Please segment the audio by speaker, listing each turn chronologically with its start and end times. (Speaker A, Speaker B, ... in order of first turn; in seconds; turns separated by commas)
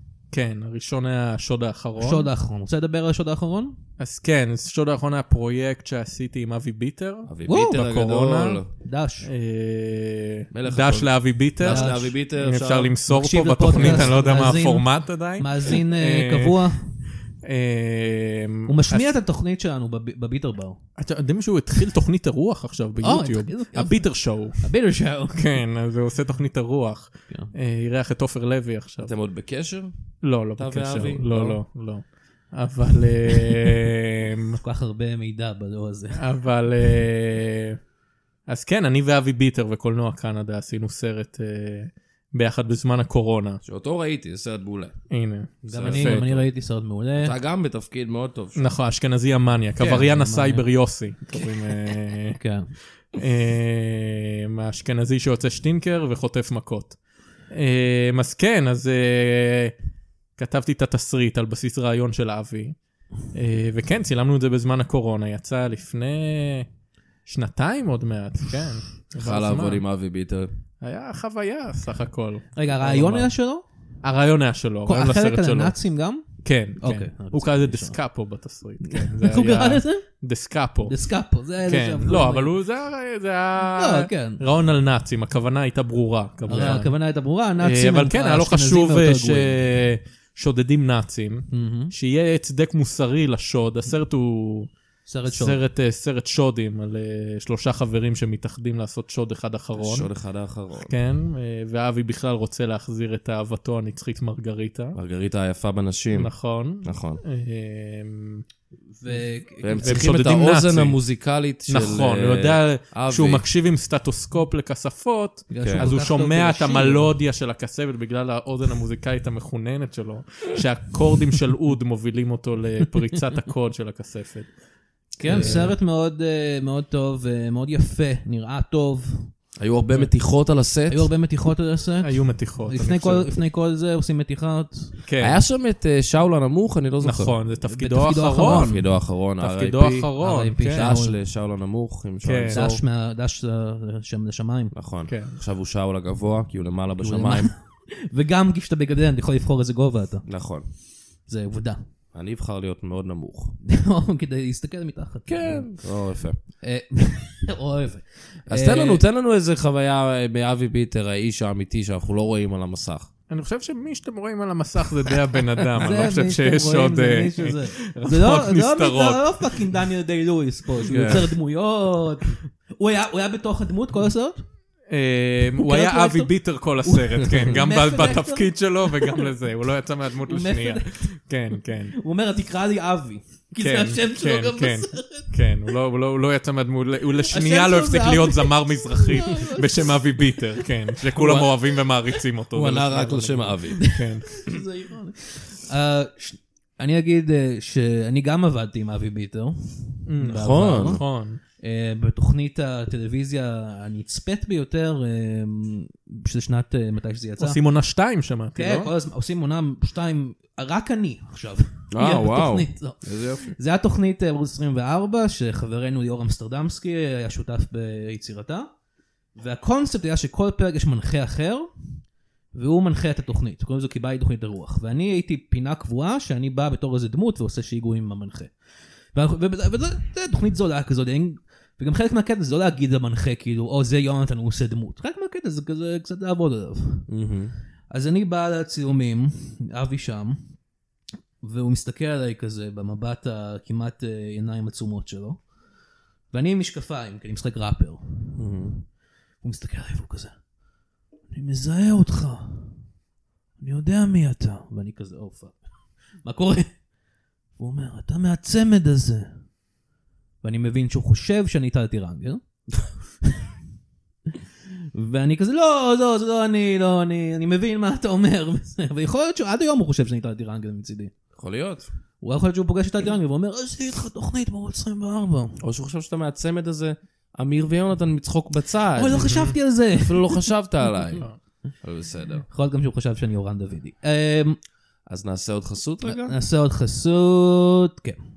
Speaker A: 0.3-2.3, Speaker B: 2.0-3.8, Speaker A: 4.0-8.6, Speaker C: 7.3-8.7, Speaker B: 7.5-7.8, Speaker B: 8.8-9.3, Speaker A: 9.2-16.6, Speaker C: 10.5-12.9, Speaker B: 11.6-12.1, Speaker B: 13.1-16.9, Speaker C: 13.7-14.1, Speaker A: 17.4-19.1, Speaker B: 18.7-20.8, Speaker A: 21.0-24.6, Speaker B: 23.0-25.6, Speaker A: 25.3-29.1, Speaker C: 29.0-29.9, Speaker A: 30.2-34.6, Speaker C: 30.6-31.6, Speaker B: 34.6-36.2, Speaker A: 36.1-37.8, Speaker A: 38.5-43.6, Speaker C: 43.6-44.9, Speaker A: 45.1-46.2, Speaker C: 45.7-46.5, Speaker B: 45.7-47.3, Speaker C: 47.2-48.7, Speaker A: 48.5-52.4, Speaker B: 49.8-50.7, Speaker B: 52.3-52.7, Speaker A: 53.1-57.0, Speaker A: 57.5-59.7, Speaker A: 60.4-62.8, Speaker A: 63.3-66.7, Speaker A: 67.2-69.8, Speaker C: 69.2-70.5, Speaker A: 70.8-73.3, Speaker B: 72.5-73.6, Speaker A: 74.0-75.8, Speaker B: 74.8-76.2, Speaker A: 76.4-81.0, Speaker B: 76.8-78.0, Speaker B: 78.8-80.0, Speaker B: 80.8-82.5, Speaker A: 81.6-86.9, Speaker B: 83.8-84.4, Speaker B: 86.5-89.6, Speaker A: 87.6-94.7, Speaker B: 91.5-91.9, Speaker B: 95.0-95.6, Speaker A: 95.3-100.1, Speaker C: 99.8-100.9, Speaker A: 100.8-105.0, Speaker C: 104.9-106.3, Speaker A: 106.1-108.4, Speaker C: 106.8-107.2, Speaker B: 109.0-110.1, Speaker C: 109.6-113.4, Speaker A: 109.8-111.0, Speaker A: 111.7-124.5, Speaker B: 115.5-117.1, Speaker C: 115.6-115.9, Speaker B: 125.2-129.3, Speaker A: 125.3-125.7, Speaker C: 125.3-125.7, Speaker C: 129.6-131.1, Speaker B: 130.9-134.9, Speaker A: 132.0-133.3, Speaker A: 135.0-135.4, Speaker C: 135.2-137.3, Speaker A: 137.0-138.8, Speaker B: 137.7-138.8, Speaker C: 138.4-140.1, Speaker A: 139.4-140.9, Speaker B: 140.2-141.2, Speaker C: 140.7-142.8, Speaker A: 142.2-142.8, Speaker B: 142.5-144.7, Speaker C: 144.7-147.5, Speaker A: 145.1-145.3, Speaker B: 147.0-150.2, Speaker C: 150.2-150.7, Speaker B: 151.2-151.8, Speaker C: 152.1-153.6, Speaker B: 153.6-155.7, Speaker C: 155.3-156.4, Speaker B: 156.6-159.0, Speaker C: 158.5-163.1, Speaker A: 163.3-169.6, Speaker B: 165.8-174.4, Speaker C: 170.8-171.3, Speaker A: 170.9-171.2, Speaker A: 174.9-181.9, Speaker B: 175.6-179.3, Speaker B: 180.3-181.1, Speaker B: 181.9-185.3, Speaker A: 183.6-194.4, Speaker B: 187.3-190.7, Speaker C: 191.2-191.5, Speaker C: 192.5-193.8, Speaker B: 193.8-201.0, Speaker A: 200.1-201.4, Speaker C: 200.3-201.0, Speaker B: 201.6-207.6, Speaker A: 207.4-208.9, Speaker B: 208.6-218.7, Speaker C: 211.9-213.5, Speaker B: 219.3-221.7, Speaker B: 222.5-228.5, Speaker B: 229.1-237.1, Speaker C: 237.1-237.5, Speaker B: 237.9-240.5, Speaker B: 241.4-245.4, Speaker B: 246.3-248.3, Speaker C: 248.3-248.8, Speaker B: 249.4-250.3, Speaker B: 251.3-252.8, Speaker B: 253.6-255.6, Speaker B: 256.2-256.7, Speaker B: 257.6-259.3, Speaker B: 260.4-262.4, Speaker B: 264.9-271.1, Speaker C: 271.4-271.9, Speaker B: 272.2-275.6, Speaker C: 275.6-279.4, Speaker B: 278.9-280.4, Speaker A: 279.2-279.5, Speaker C: 279.9-281.2, Speaker C: 281.8-282.4, Speaker B: 282.5-284.6, Speaker C: 285.1-286.3, Speaker B: 286.0-288.2